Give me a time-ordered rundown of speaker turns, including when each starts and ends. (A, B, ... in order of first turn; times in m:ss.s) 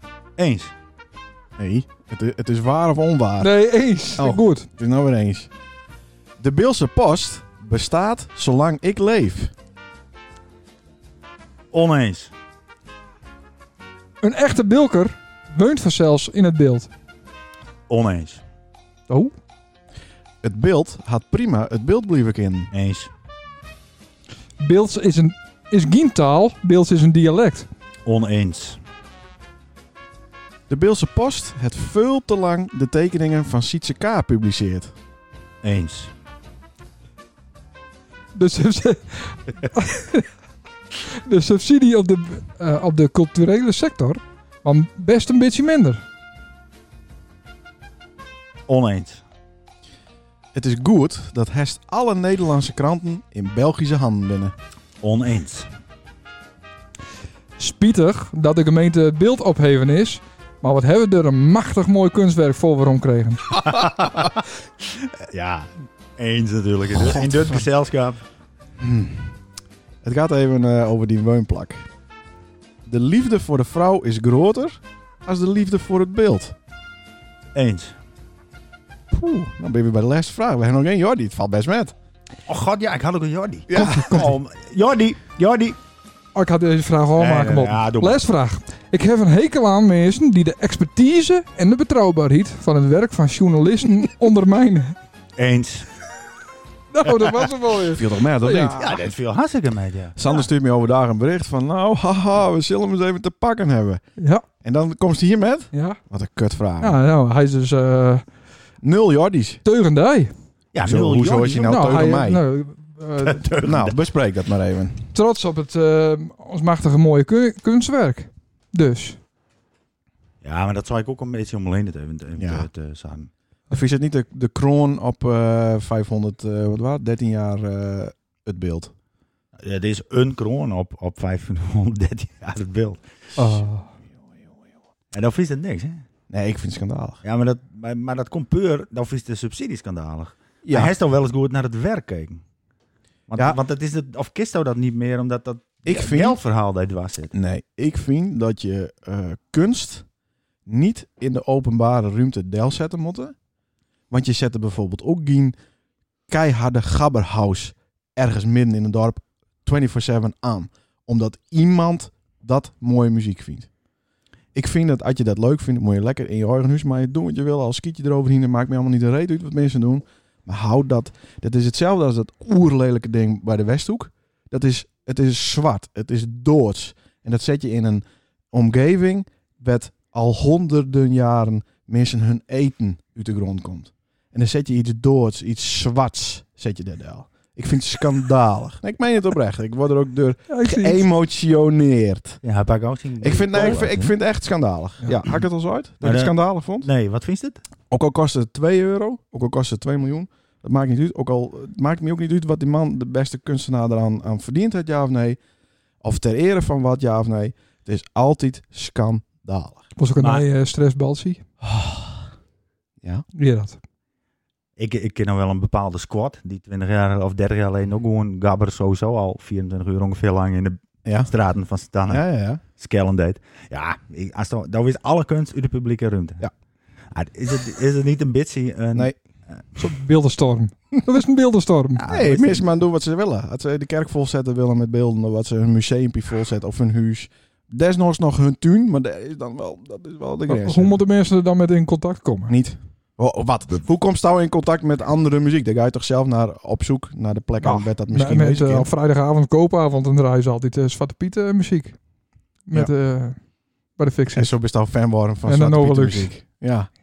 0:00.4-0:00.7 A
0:01.6-0:03.5 B
0:03.4-0:04.7 C
0:04.2-0:05.5 B
0:06.4-0:09.5 B
0:11.7-0:12.3 A
0:14.2-0:16.9 C
0:17.9-0:18.4 A
0:20.4-0:22.7 B
0:22.7-0:23.1 A
0:24.6-0:27.7 C
0:28.0-0:28.8 A
0:30.7-0:34.9 B
0:35.6-0:36.1 A
0:38.3-0:40.3 C
0:41.1-0:46.0 C
0:48.7-0:49.2 A
0:50.5-0:54.5 B
0:55.0-0:55.7 A
0:57.6-1:03.6 C
1:03.6-1:08.2 A
1:06.9-1:07.6 B
1:08.8-1:09.4 B
1:10.0-1:11.9 B
1:12.8-1:16.5 B
1:17.5-1:18.0 A
1:19.1-1:21.9 B
1:22.4-1:25.8 A
1:23.7-1:24.3 B
1:23.7-1:24.3 C
1:26.3-1:34.9 C
1:27.2-1:28.2 A
1:35.4-1:35.9 A
1:36.9-1:38.9 C
1:37.9-1:38.9 B
1:38.8-1:40.2 A
1:40.2-1:44.0 B
1:44.2-1:44.4 C
1:44.6-1:47.0 B
1:45.7-1:46.0 C
1:46.8-1:48.2 C
1:48.8-1:49.6 B
1:49.6-1:50.3 C
1:50.7-1:52.0 A
1:50.8-1:52.4 B
1:51.6-1:53.4 C
1:53.2-1:54.0 A
1:53.6-1:55.1 B
1:55.1-1:59.2 C
2:00.4-2:03.3 A
2:02.4-2:02.7 B
2:03.7-2:08.9 B
2:09.6-2:13.0 A
2:13.4-2:14.5 B
2:13.4-2:13.8 C
2:15.1-2:16.0 A
2:16.3-2:17.2 B
2:17.2-2:22.4 A
2:20.6-2:20.9 B
2:23.3-2:27.3 A
2:25.8-2:26.4 B
2:27.3-2:30.0 B
2:30.6-2:33.4 B
2:34.1-2:35.5 B
2:36.3-2:43.7 B
2:44.5-3:12.4 B
3:10.5-3:11.0 C
3:12.4-3:14.1 A
3:13.2-3:16.9 B
3:16.0-3:17.6 A
3:17.9-3:25.4 B
3:26.0-3:29.9 B
3:30.0-3:31.4 C
3:30.2-3:30.4 A
3:31.6-3:32.3 B
3:33.3-3:33.8 C
3:34.8-3:46.4 A
3:41.0-3:41.3 B
3:42.1-3:42.6 B
3:47.1-3:49.6 A
3:49.8-3:52.0 C
3:52.0-3:52.7 A
3:52.1-4:01.0 B
4:00.5-4:02.5 C
4:02.5-4:08.9 B
4:07.6-4:12.0 C
4:12.6-4:14.6 C
4:14.3-4:16.9 B
4:15.5-4:16.3 C